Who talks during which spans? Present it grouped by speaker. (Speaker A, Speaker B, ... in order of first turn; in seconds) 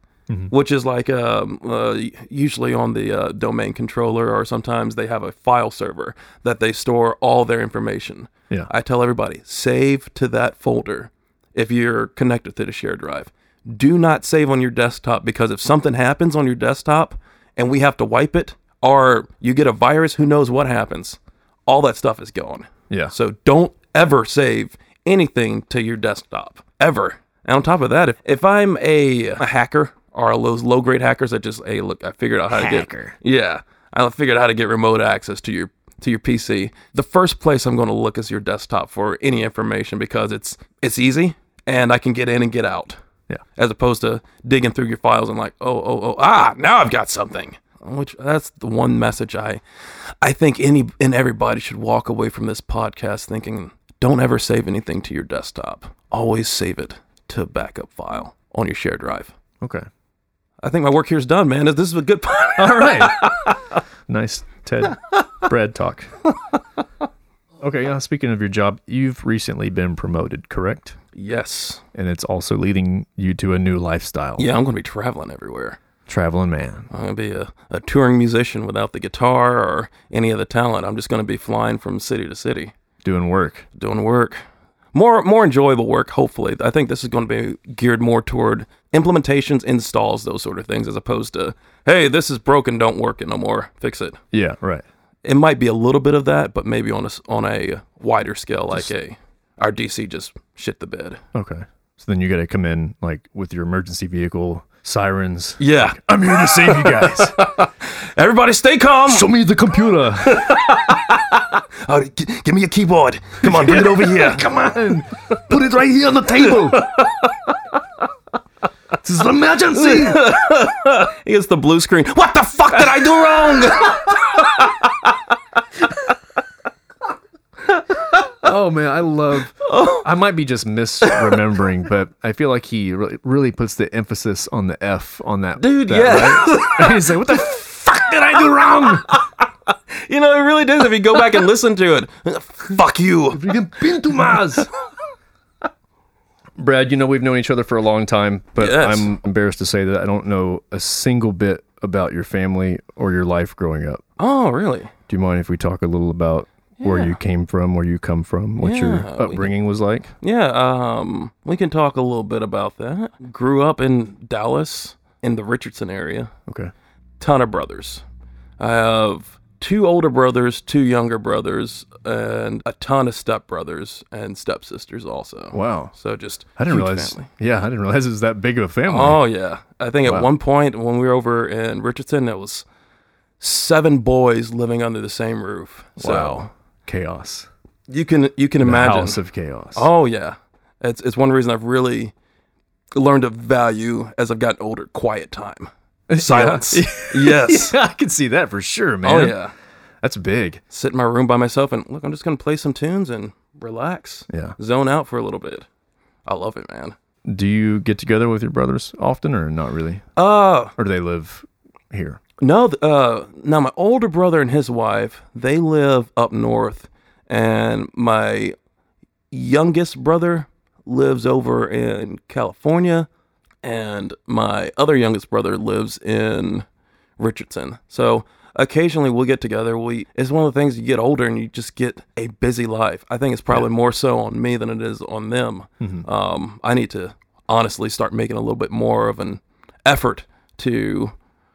Speaker A: 0.5-43.0, 43.6-49.6, 50.2-59.3, 60.6-63.6, 71.1-71.8, 74.4-75.8, 76.9-82.7, 83.8-84.4, 84.9-94.2, 95.2-101.2, 105.6-109.3, 110.2-114.5, 116.7-117.3, 119.7-125.1, 129.6-130.1, 131.0-131.4, 135.6-137.4, 138.8-139.3, 140.0-143.4, 148.6-149.1, 154.2-154.9, 156.8-157.2, 158.6-159.6, 160.2-166.3, 167.2-168.0, 168.6-177.3, 178.9-182.7, 183.4-186.5, 187.9-189.2, 189.8-192.1, 192.9-197.8, 199.0-199.5, 200.7-205.7, 206.2-207.0, 210.2-210.7, 212.4-218.6, 219.3-223.1, 223.6-226.7, 227.2-241.1
Speaker B: 32.5-33.1, 59.6-59.9, 62.6-63.3, 64.1-66.1, 67.6-71.0, 71.9-74.5, 76.1-76.9, 83.0-83.7, 94.3-94.8, 101.3-107.5, 109.1-110.6, 113.4-116.9, 119.0-120.3, 122.7-123.9, 128.4-139.1, 143.3-144.7, 146.6-154.0, 155.1-160.1, 166.5-166.7, 175.5-175.9, 176.6-179.2, 186.0-187.5, 188.6-189.9, 196.1-199.4, 200.0-200.6, 204.3-204.6, 207.3-210.1, 210.8-212.2, 235.8-236.1